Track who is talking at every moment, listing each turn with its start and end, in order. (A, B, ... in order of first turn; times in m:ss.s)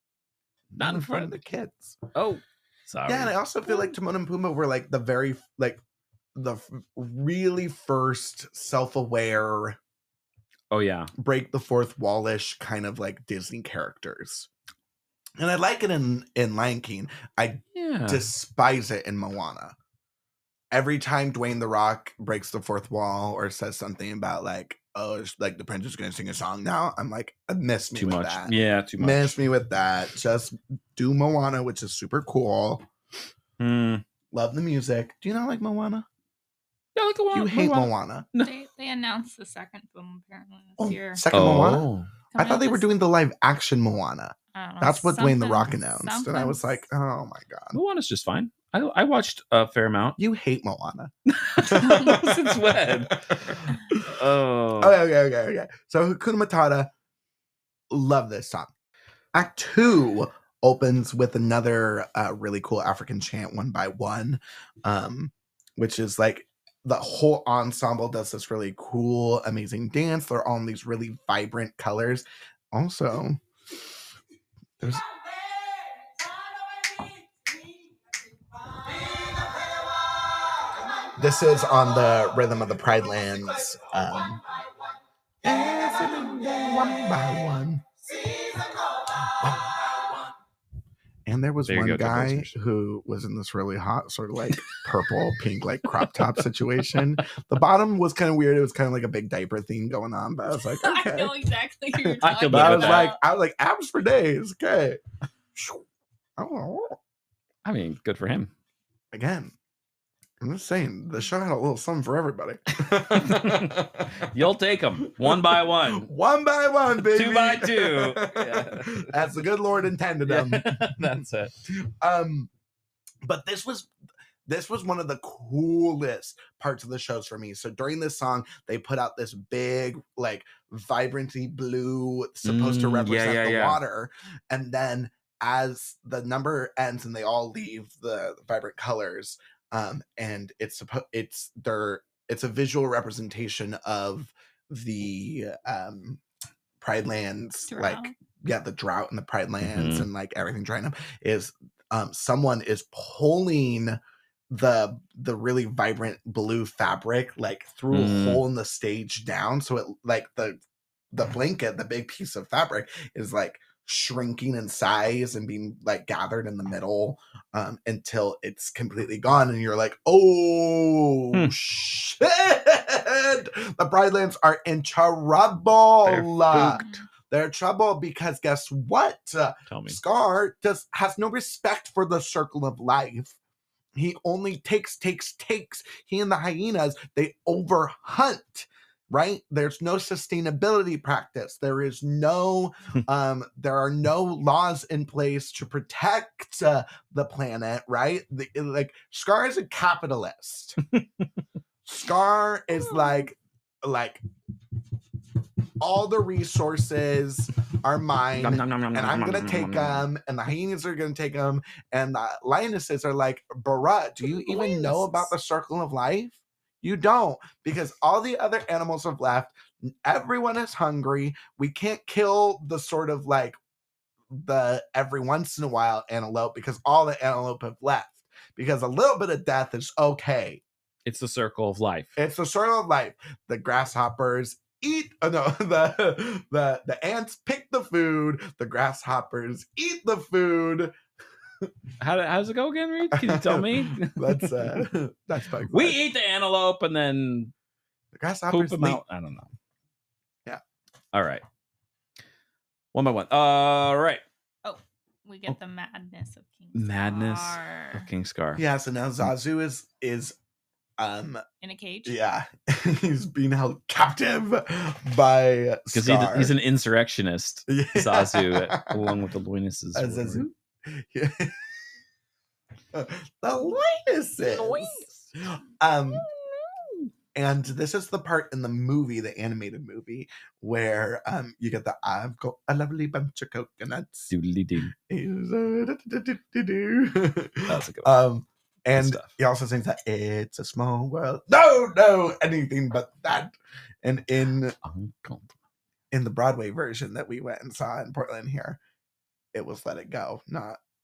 0:00.7-0:01.4 A
0:00.8-0:02.0 B
0:02.1-0:03.4 A
0:03.1-0:05.8 B
0:06.3-0:09.8 B
0:10.7-0:11.1 A
0:11.2-0:14.5 B
0:15.4-0:19.7 B
0:17.7-0:18.2 A
0:20.7-0:32.9 B
0:27.9-0:29.4 A
0:33.6-0:34.0 A
0:34.3-0:36.1 B
0:36.9-0:38.5 A
0:37.3-0:38.3 B
0:38.4-0:41.6 C
0:40.8-0:47.8 B
0:41.3-0:42.1 A
0:42.3-0:42.9 C
0:44.5-0:46.9 C
0:47.7-0:50.2 A
0:50.2-0:54.1 B
0:51.3-0:55.0 A
0:54.8-0:56.9 B
0:57.9-0:58.7 B
0:59.3-1:13.4 B
1:14.8-1:15.1 B
1:21.0-1:24.4 B
1:25.4-1:28.5 B
1:29.0-1:30.1 B
1:31.2-1:41.4 B
1:31.6-1:32.6 A
1:35.8-1:37.2 A
1:40.5-1:43.2 C
1:42.2-1:43.1 A
1:42.5-1:45.0 B
1:45.6-1:45.8 B
1:46.4-1:47.0 B
1:47.6-1:48.5 A
1:49.1-1:49.5 B
1:50.4-1:54.3 B
1:52.8-1:56.1 A
1:55.0-2:02.5 B
1:57.1-1:59.5 A
2:00.2-2:01.6 A
2:03.2-2:03.9 B
2:04.4-2:26.2 B
2:12.4-2:13.8 A
2:26.8-2:34.0 B
2:27.7-2:28.1 C
2:29.6-2:30.1 A
2:34.5-2:40.6 B
2:37.9-2:38.4 A
2:41.1-3:03.4 B
2:56.0-2:56.8 A
2:56.5-2:57.1 C
2:59.7-3:00.0 A
3:04.0-3:20.8 B
3:21.8-3:24.2 B
3:25.8-3:43.6 B
3:28.4-3:30.0 A
3:34.3-3:35.3 C
3:44.3-3:50.6 B
3:51.0-3:52.1 A
3:52.2-4:00.9 B
4:02.0-4:04.8 A
4:03.1-4:06.0 B
4:05.7-4:07.5 A
4:08.1-4:09.0 B
4:08.5-4:09.5 A
4:11.1-4:11.4 A
4:12.9-4:14.2 A
4:14.6-4:18.1 C
4:16.7-4:18.6 A
4:18.6-4:20.4 B
4:21.0-4:21.4 B
4:21.6-4:22.2 C
4:22.0-4:26.5 B
4:25.9-4:30.4 A
4:27.7-4:29.2 B
4:29.9-4:31.6 B
4:32.9-4:36.2 B
4:34.4-4:35.3 A
4:37.3-4:44.3 B
4:44.3-4:44.9 A
4:45.0-4:54.8 B
4:47.7-4:48.1 A
4:48.9-4:49.3 A
4:54.8-4:55.5 A
4:56.1-4:58.8 B
4:59.5-5:00.8 B